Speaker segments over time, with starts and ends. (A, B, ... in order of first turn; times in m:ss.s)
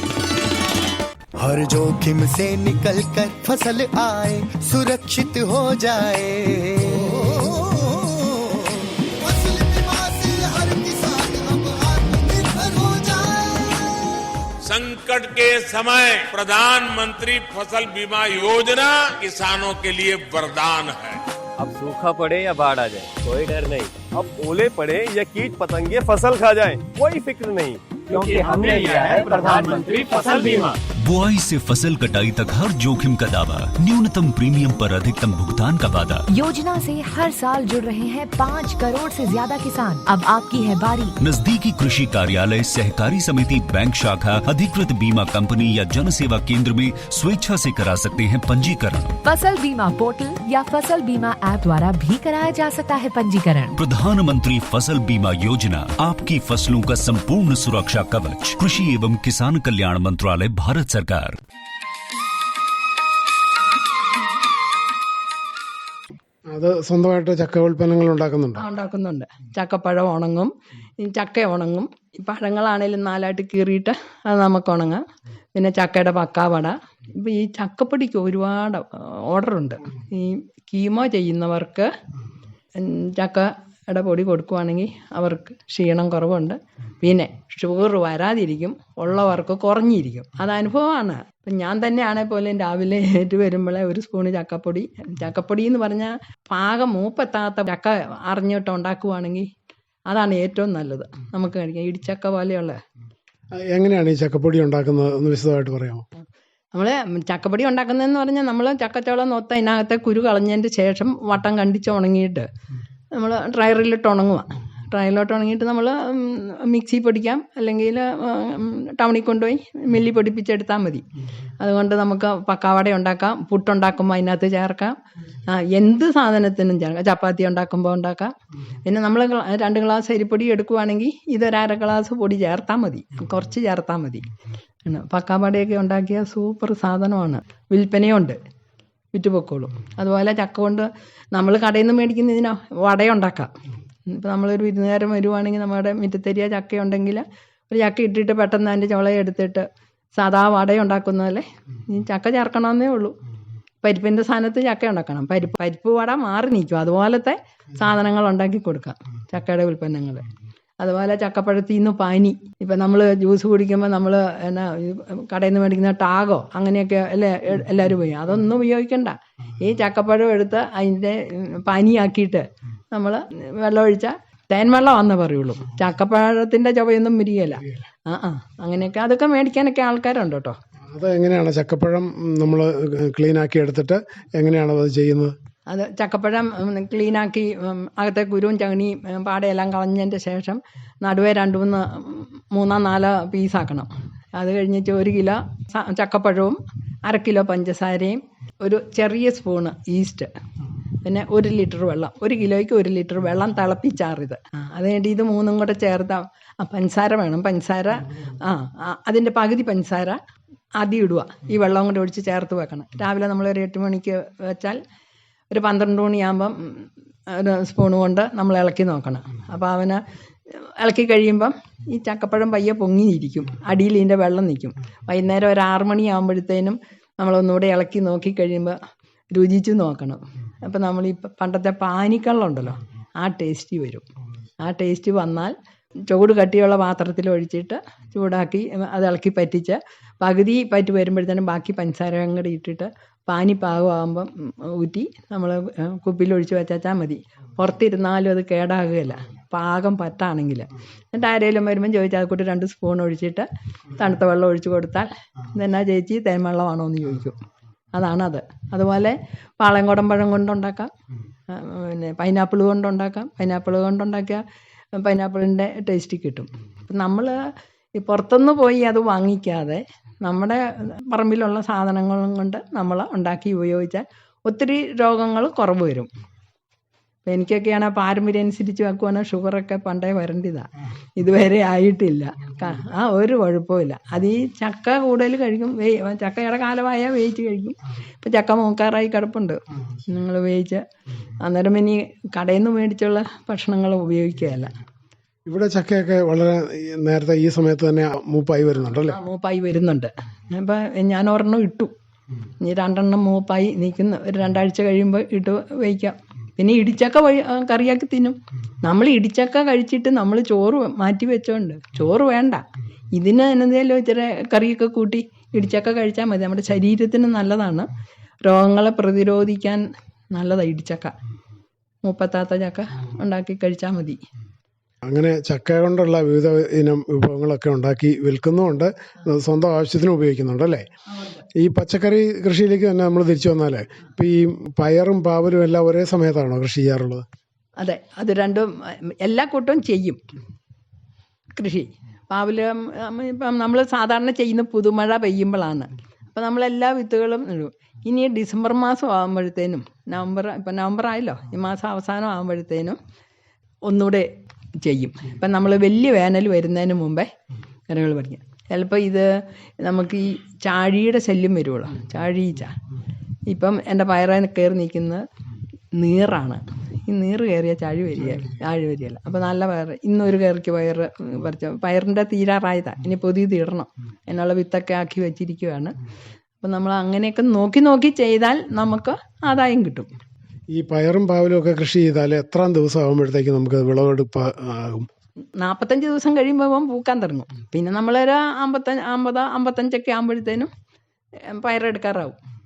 0:01.4-0:13.9 A
0:14.7-0:21.2 B
0:21.6-0:30.7 C
0:31.0-0:36.2 D
0:36.3-0:41.1 E
0:41.2-0:49.1 D
0:49.2-0:53.8 E
0:53.8-1:01.4 D
1:06.5-1:08.6 F
1:08.6-1:21.9 G
1:22.8-1:39.5 G
1:40.1-1:42.8 G
1:43.5-1:46.0 F
1:46.7-1:52.5 G
1:53.1-2:01.0 G
2:01.6-2:05.0 G
2:05.5-2:14.3 G
2:14.8-2:18.4 G
2:19.1-2:23.5 G
2:24.1-2:33.2 G
2:33.8-2:40.3 G
2:40.8-3:00.6 G
3:00.9-3:05.3 F
3:05.7-3:20.3 G
3:21.0-3:30.2 G
3:30.8-3:34.8 G
3:35.5-3:40.0 G
3:40.6-3:48.8 G
3:49.3-3:54.0 G
3:54.6-3:55.5 G
3:56.1-4:17.4 G
4:17.9-4:20.9 G
4:21.5-4:24.4 G
4:24.9-4:27.4 G
4:28.0-4:36.1 G
4:37.2-4:50.8 G
4:51.4-4:54.7 G
4:55.4-4:59.2 F
4:58.9-5:01.9 G
5:02.6-5:17.9 G
5:18.4-5:21.2 G
5:22.0-5:24.2 G
5:25.0-5:30.8 F
5:31.6-5:37.2 F
5:37.8-5:40.2 G
5:41.6-5:53.0 G
5:53.8-5:54.3 G
5:54.8-5:57.3 G
5:57.9-6:02.8 G
6:03.5-6:05.2 G
6:05.9-6:15.9 G
6:16.6-6:20.1 G
6:20.7-6:25.1 F
6:25.6-6:30.7 G
6:31.5-6:32.4 G